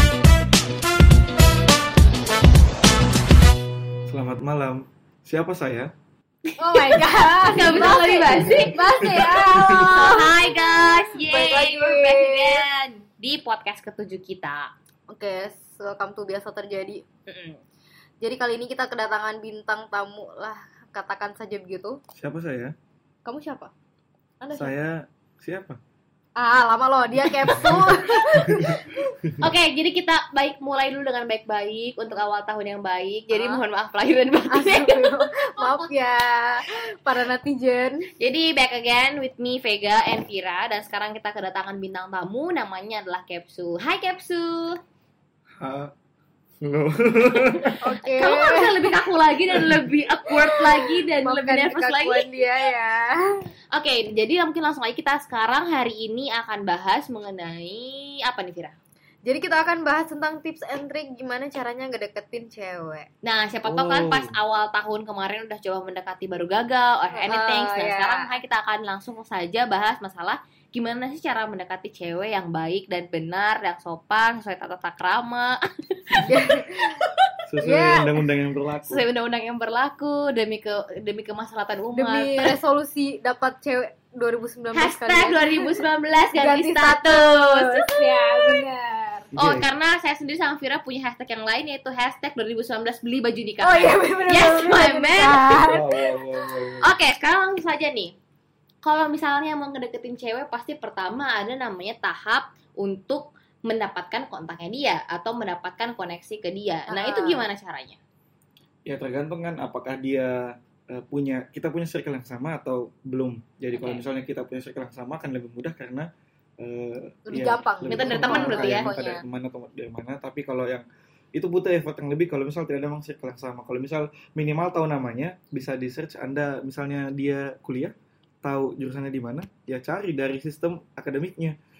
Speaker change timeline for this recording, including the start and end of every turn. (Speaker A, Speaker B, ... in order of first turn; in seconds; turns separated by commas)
Speaker A: 4.1-5.9, Speaker B: 6.5-9.0, Speaker C: 6.6-12.6, Speaker A: 8.4-10.2, Speaker B: 9.8-14.7, Speaker C: 15.1-17.0, Speaker B: 17.3-17.6, Speaker C: 18.2-22.0, Speaker A: 22.1-22.7, Speaker C: 23.2-23.7, Speaker C: 24.4-24.8, Speaker A: 24.5-25.8, Speaker C: 26.4-29.1, Speaker A: 27.5-27.9, Speaker B: 29.4-35.9, Speaker C: 33.3-33.6, Speaker C: 34.5-38.1, Speaker B: 38.2-44.8, Speaker A: 45.6-45.9, Speaker A: 46.6-47.9, Speaker C: 47.8-49.0, Speaker B: 48.0-52.3, Speaker A: 49.6-49.9, Speaker C: 50.3-53.4, Speaker B: 53.7-58.7, Speaker C: 59.2-63.1, Speaker B: 63.2-77.1, Speaker A: 63.6-64.4, Speaker C: 67.1-68.3, Speaker C: 76.2-77.0, Speaker A: 77.5-79.0, Speaker C: 77.6-78.2, Speaker B: 78.8-82.5, Speaker C: 81.9-89.3, Speaker B: 84.7-88.6, Speaker A: 89.3-89.7, Speaker B: 89.3-95.6, Speaker C: 93.6-96.7, Speaker A: 95.6-96.9, Speaker B: 96.8-98.1, Speaker B: 98.8-108.0, Speaker C: 106.9-107.5, Speaker A: 108.8-116.1, Speaker B: 113.7-114.0, Speaker A: 116.6-127.9, Speaker C: 117.3-119.1, Speaker B: 117.9-119.2, Speaker A: 128.4-131.6